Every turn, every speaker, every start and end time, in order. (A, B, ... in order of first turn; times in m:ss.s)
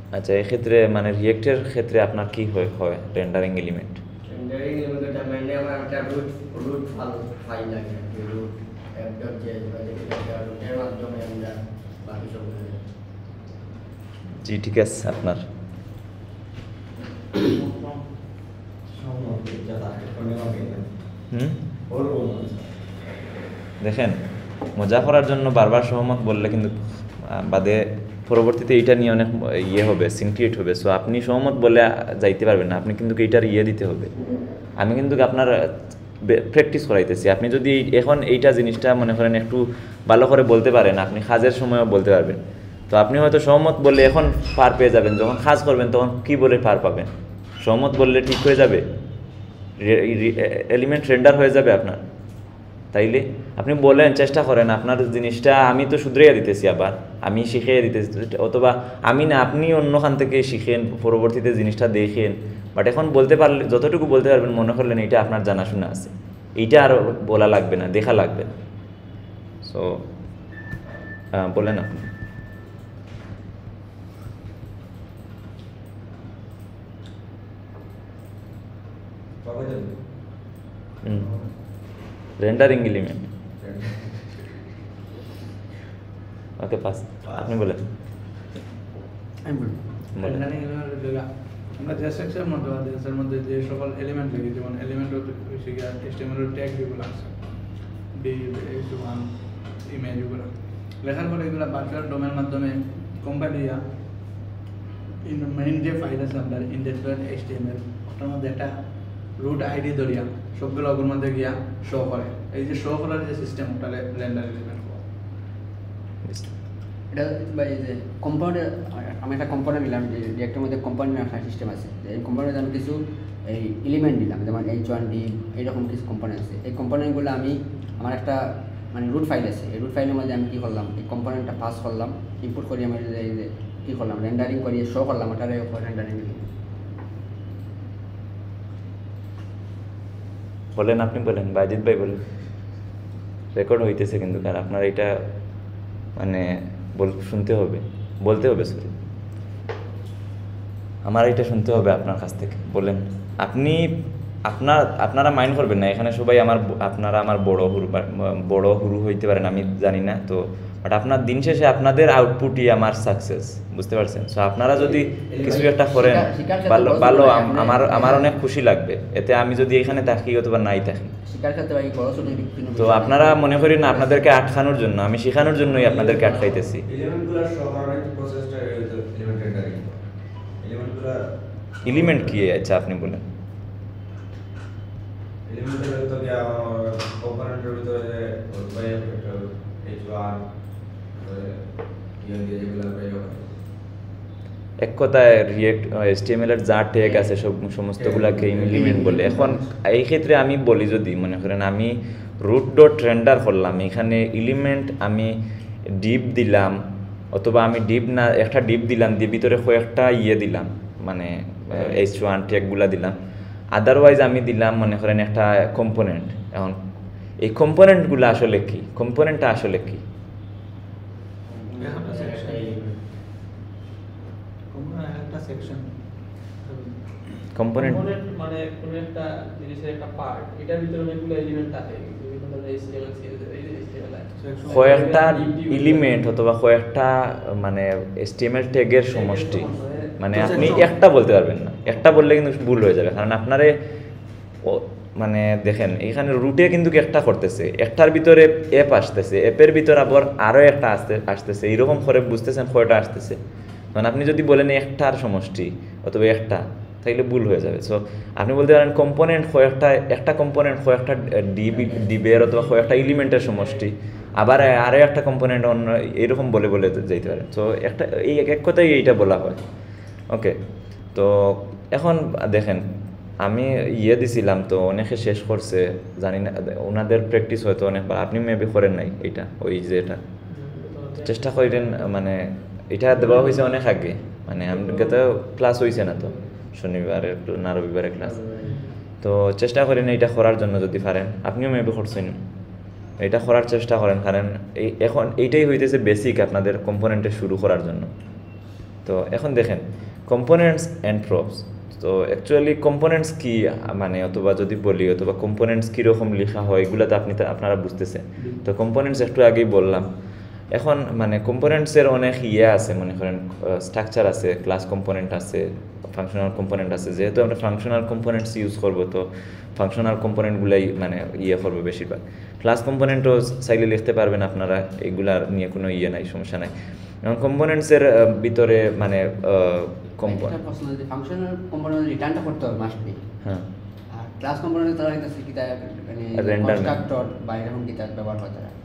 0:00.1-0:04.0 A
0:04.3-0:12.8 B
0:14.4-0:15.4 A
0:17.7-0:18.0 C
0:19.0-0:20.9 D
0:21.3-0:21.6 A
0:21.9-0:22.6 D
0:23.8-0:24.2 A
0:24.8-0:34.1 A
0:34.8-0:47.1 A
0:47.6-0:48.9 A
0:49.8-0:52.0 A
0:52.9-1:08.5 A
1:09.6-1:10.0 A
1:11.3-1:12.1 A
1:19.4-1:20.0 D
1:21.0-1:21.3 A
1:22.4-1:23.2 A
1:23.6-1:24.0 D
1:26.6-1:27.8 A
1:29.4-1:29.8 E
1:30.2-1:30.4 A
1:30.2-1:37.5 C
1:38.1-1:40.5 C
1:41.0-1:43.8 C
1:45.2-1:48.7 C
1:49.4-1:55.0 C
1:56.2-1:56.6 A
1:57.1-2:16.4 E
2:20.8-2:22.2 A
2:23.5-2:25.2 A
2:26.2-2:28.9 A
2:31.0-2:51.1 A
2:45.3-2:45.6 D
2:45.4-2:48.4 E
2:51.2-2:54.2 E
2:52.8-2:56.8 A
2:55.6-3:00.0 D
3:00.6-3:01.2 D
3:01.8-3:02.4 D
3:01.8-3:03.2 A
3:05.5-3:10.4 D
3:11.1-3:11.6 D
3:12.2-3:13.5 D
3:14.8-3:25.3 A
3:18.0-3:19.4 D
3:18.7-3:19.6 E
3:25.9-3:26.8 A
3:27.3-3:33.2 A
3:33.8-3:36.8 A
3:37.4-3:40.0 A
3:41.5-3:43.0 B
3:41.8-3:42.7 C
3:44.7-3:45.9 C
3:47.6-3:48.1 A
3:47.8-3:56.1 F
3:54.4-3:55.2 C
3:54.7-4:03.8 A
3:59.1-4:00.2 F
4:00.3-4:00.9 C
4:04.6-4:13.4 A
4:13.9-4:29.6 A
4:21.8-4:22.2 B
4:30.3-4:30.6 A
4:31.1-4:32.9 A
4:33.4-4:40.2 A
4:40.5-4:42.1 F
4:41.2-4:48.4 A
4:43.2-4:43.7 F
4:44.7-4:45.2 F
4:48.2-4:48.8 B
4:48.6-4:49.0 F
4:49.2-4:52.4 A
4:53.2-4:58.1 A
4:59.1-5:10.1 A
5:10.7-5:26.7 A
5:27.2-5:30.6 A
5:30.2-5:33.2 E
5:34.1-5:38.7 E
5:36.4-5:37.0 A